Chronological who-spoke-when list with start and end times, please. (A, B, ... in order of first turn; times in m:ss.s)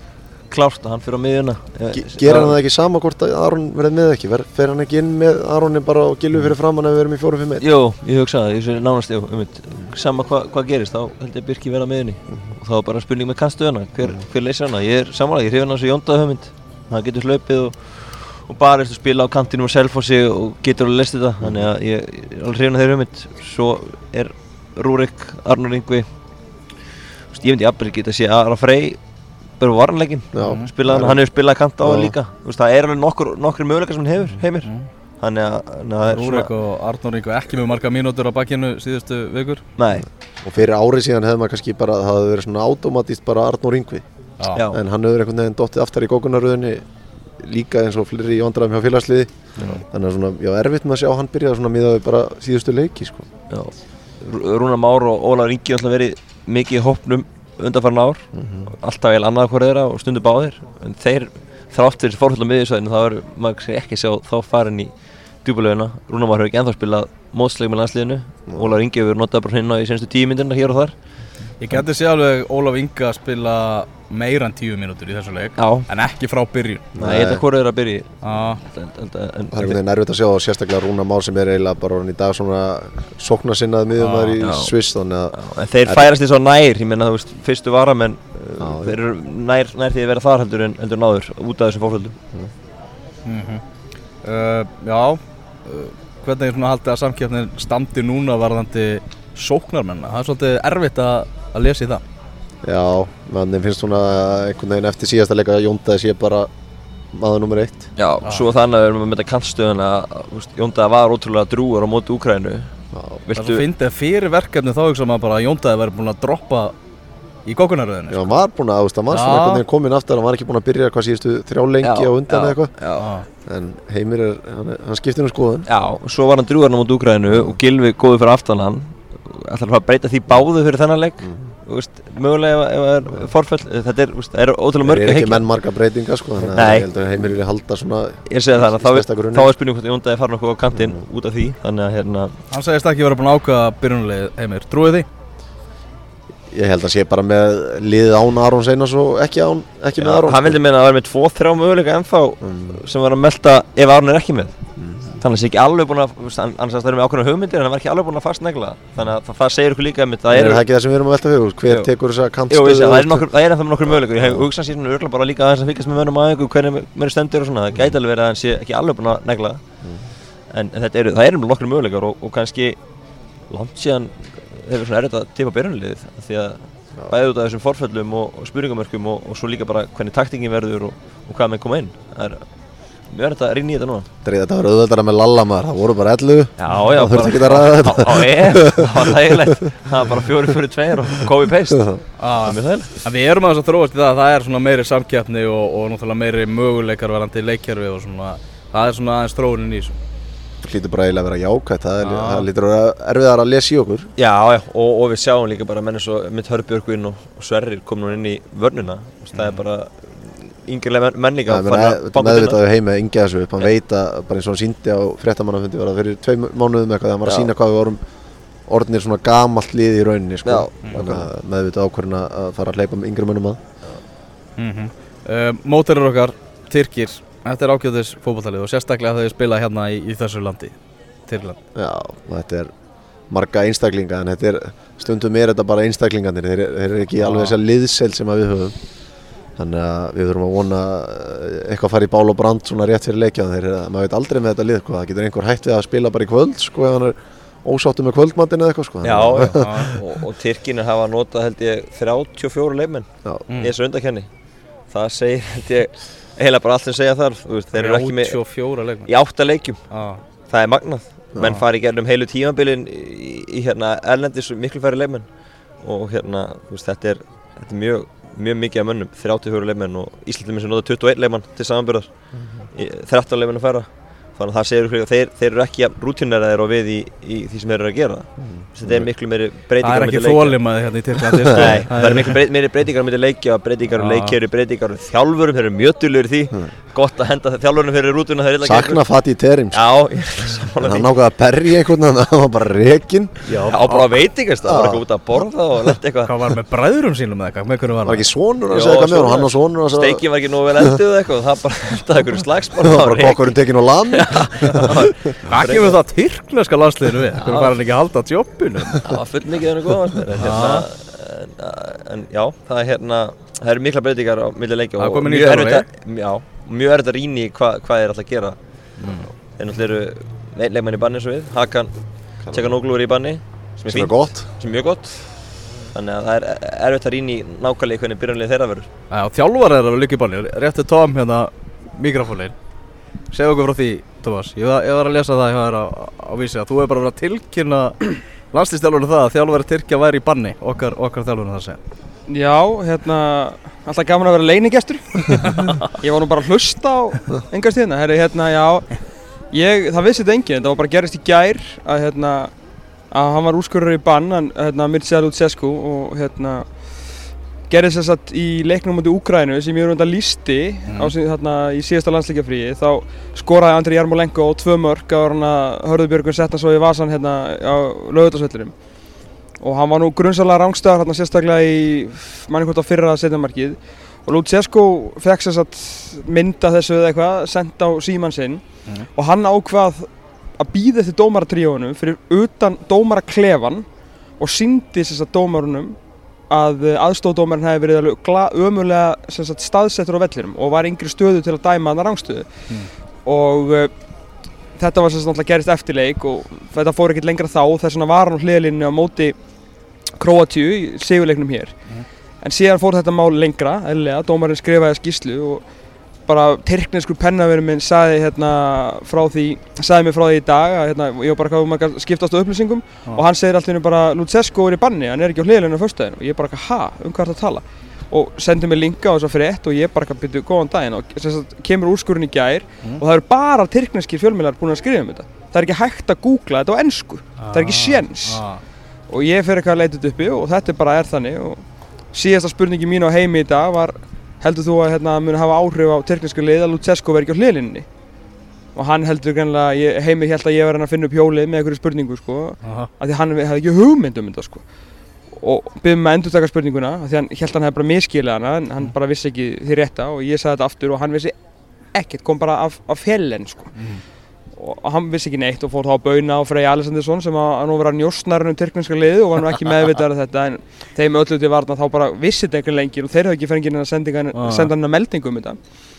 0:00.5-0:02.6 A
0:01.9-0:07.6 B
0:07.6-0:26.0 A
0:21.4-0:21.7 B
0:27.3-0:29.0 A
0:29.6-0:36.5 A
0:30.3-0:31.2 B
0:30.4-0:30.7 C
0:31.8-0:32.2 B
0:34.6-0:34.9 C
0:36.1-0:39.6 C
0:39.8-0:40.0 A
0:40.4-0:44.0 B
0:44.5-0:44.8 A
0:44.7-0:46.8 B
0:47.4-0:53.3 B
0:53.5-1:04.9 A
0:58.3-0:58.7 B
1:05.4-1:10.9 A
1:08.5-1:08.8 B
1:11.6-1:16.8 C
1:15.6-1:15.9 A
1:16.9-1:17.4 B
1:17.0-1:19.8 A
1:18.2-1:18.6 C
1:19.5-1:26.1 B
1:24.0-1:24.4 C
1:24.4-1:24.7 A
1:25.3-1:32.2 A
1:28.6-1:29.0 B
1:33.2-1:33.6 C
1:34.2-1:42.0 C
1:42.6-1:46.5 B
1:47.1-1:47.9 B
1:48.0-1:52.7 A
1:52.9-1:53.2 B
1:53.2-1:53.6 A
1:53.3-1:56.7 C
1:57.4-1:58.4 C
1:58.1-2:02.7 B
1:59.1-1:59.6 C
2:01.8-2:03.1 A
2:03.0-2:03.2 C
2:03.4-2:05.7 B
2:05.7-2:15.4 A
2:14.8-2:19.5 B
2:16.5-2:16.9 A
2:18.3-2:22.4 A
2:22.5-2:25.1 C
2:26.5-2:30.6 B
2:30.0-2:34.6 A
2:32.4-2:32.8 B
2:34.8-2:35.1 B
2:35.2-2:40.6 A
2:40.3-2:43.3 B
2:42.5-2:49.6 A
2:44.1-2:44.4 B
2:50.5-2:52.8 A
2:53.5-3:02.4 A
3:03.1-3:04.1 A
3:04.2-3:09.3 B
3:06.6-3:12.9 A
3:11.7-3:12.0 B
3:12.2-3:20.0 C
3:20.6-3:24.1 B
3:22.0-3:22.4 C
3:24.2-3:32.6 A
3:29.3-3:29.6 C
3:31.5-3:38.0 B
3:38.7-3:43.6 B
3:40.4-3:41.3 A
3:44.6-3:51.6 C
3:51.7-3:52.7 B
3:53.3-3:58.8 B
3:57.2-3:57.6 C
3:59.6-4:10.0 B
4:09.0-4:14.3 A
4:09.3-4:09.9 C
4:14.9-4:18.5 A
4:17.7-4:19.1 C
4:19.0-4:19.8 A
4:19.9-4:20.2 C
4:20.5-4:25.2 A
4:25.8-4:32.1 A
4:32.7-4:40.6 A
4:38.5-4:39.1 B
4:39.8-4:42.3 C
4:41.5-4:49.0 A
4:44.0-4:44.4 C
4:48.6-4:49.8 B
4:49.7-4:51.1 A
4:50.8-4:53.5 B
4:53.4-4:54.0 C
4:53.7-4:56.3 A
4:54.6-4:55.0 B
4:56.2-4:58.2 C
4:58.0-5:00.2 B
4:58.7-5:06.0 A
5:02.8-5:05.1 B
5:05.4-5:09.0 C
5:07.3-5:07.7 A
5:09.0-5:18.6 A
5:10.4-5:10.8 C
5:15.0-5:15.8 C
5:19.0-5:19.3 C
5:19.6-5:21.9 A
5:22.4-5:22.7 B
5:22.5-5:25.4 A
5:23.9-5:24.5 B
5:25.9-5:28.9 A
5:29.1-5:32.5 C
5:33.3-5:41.8 C
5:42.3-5:52.5 D
5:53.1-6:08.7 D
6:00.9-6:01.1 C
6:09.6-6:23.8 D
6:24.4-6:26.0 D
6:26.5-6:32.6 D
6:33.2-6:33.9 D
6:34.7-6:39.4 D
6:40.2-6:41.9 D
6:42.4-6:45.6 D
6:46.2-7:08.4 D
7:07.4-7:08.6 C
7:09.1-7:17.9 D
7:18.7-7:24.6 D
7:22.6-7:22.9 C
7:25.3-7:31.3 D
7:31.9-7:33.8 D
7:33.7-7:34.0 C
7:34.5-7:45.6 D
7:44.3-7:44.7 C